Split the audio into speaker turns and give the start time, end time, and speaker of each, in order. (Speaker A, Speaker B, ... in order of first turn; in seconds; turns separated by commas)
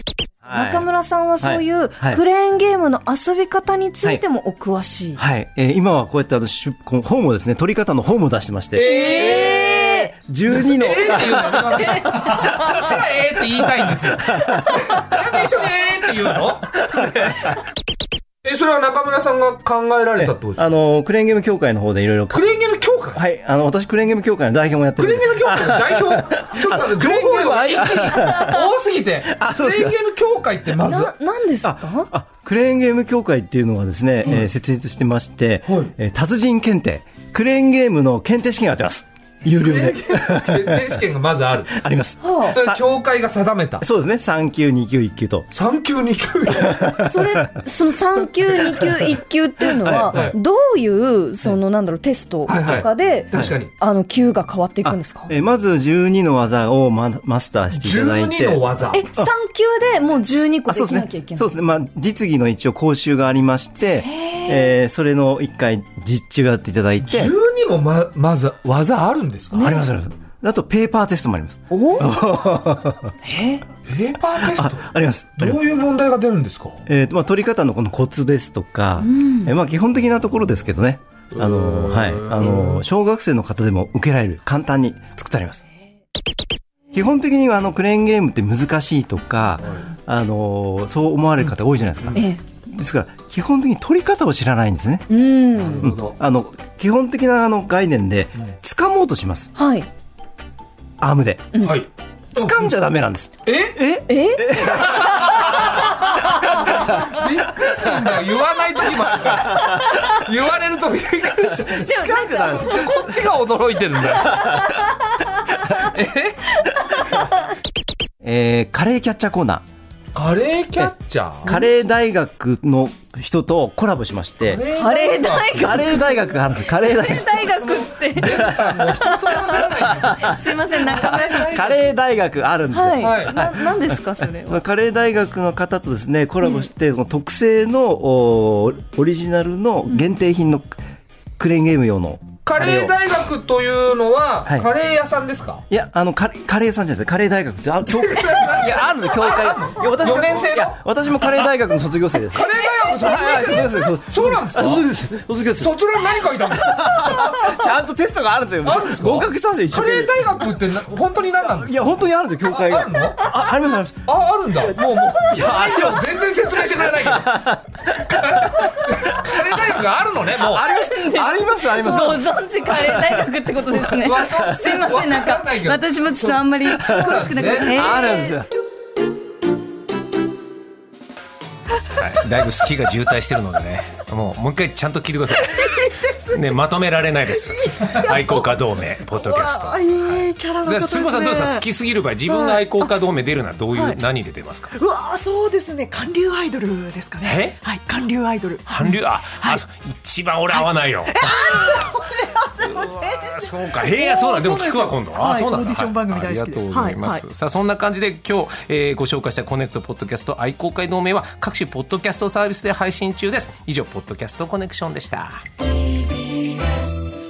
Speaker A: 0.5-0.9, Speaker B: 0.5-5.2, Speaker A: 1.4-2.2, Speaker A: 5.2-12.8, Speaker C: 8.8-9.8, Speaker B: 8.8-10.1, Speaker C: 10.5-17.6, Speaker C: 18.4-20.6, Speaker A: 20.2-22.4, Speaker C: 22.3-23.2, Speaker A: 23.1-28.7, Speaker C: 25.0-31.1, Speaker A: 29.2-30.0, Speaker B: 30.9-32.1, Speaker A: 31.6-41.0, Speaker C: 35.6-35.9, Speaker C: 39.6-41.8, Speaker A: 41.8-42.8, Speaker B: 42.2-42.6, Speaker C: 42.5-43.8, Speaker A: 43.8-45.5, Speaker C: 45.5-46.8, Speaker A: 46.5-47.6, Speaker B: 46.9-55.3, Speaker A: 49.8-50.3, Speaker C: 52.5-53.7, Speaker A: 54.8-59.3, Speaker C: 57.7-59.0, Speaker B: 58.9-61.5, Speaker A: 60.7-67.3, Speaker B: 64.0-64.7, Speaker C: 67.0-69.7, Speaker A: 69.5-73.2, Speaker B: 69.6-69.9, Speaker B: 71.7-72.1, Speaker B: 73.2-73.7, Speaker C: 73.8-76.8, Speaker A: 74.4-75.6, Speaker A: 76.9-85.6, Speaker B: 79.0-79.5, Speaker C: 81.3-82.8, Speaker A: 86.9-95.1, Speaker B: 92.2-92.4, Speaker B: 95.1-95.8, Speaker C: 95.6-96.1, Speaker A: 95.8-99.5, Speaker B: 99.5-99.9, Speaker A: 101.0-101.5, Speaker C: 101.6-102.7, Speaker A: 102.3-105.5, Speaker C: 103.5-103.8, Speaker B: 104.1-104.5, Speaker C: 104.6-114.6, Speaker B: 111.8-113.1, Speaker C: 115.7-116.7, Speaker A: 118.2-119.6, Speaker C: 120.1-121.6, Speaker A: 121.4-124.6, Speaker C: 124.5-126.0, Speaker B: 124.7-131.9, Speaker A: 125.6-129.0, Speaker C: 127.6-131.8, Speaker A: 129.8-140.8, Speaker B: 132.7-134.6, Speaker C: 133.0-133.4, Speaker A: 141.4-142.9, Speaker C: 142.5-145.7, Speaker A: 145.7-155.7, Speaker C: 147.9-150.8, Speaker C: 152.3-154.8, Speaker C: 155.6-157.7, Speaker A: 156.6-160.4, Speaker C: 158.6-163.4, Speaker A: 161.6-166.1, Speaker C: 164.1-170.9, Speaker A: 166.8-167.8, Speaker B: 170.4-178.4, Speaker A: 170.8-173.4, Speaker C: 173.6-177.8, Speaker A: 174.4-174.7, Speaker A: 177.6-178.5, Speaker D: 181.9-194.8, Speaker E: 187.8-188.2, Speaker E: 189.2-191.6, Speaker E: 192.4-192.8, Speaker E: 194.8-198.7, Speaker D: 197.2-197.6, Speaker D: 198.7-215.4, Speaker E: 201.2-202.3, Speaker E: 203.9-207.2, Speaker E: 216.3-216.7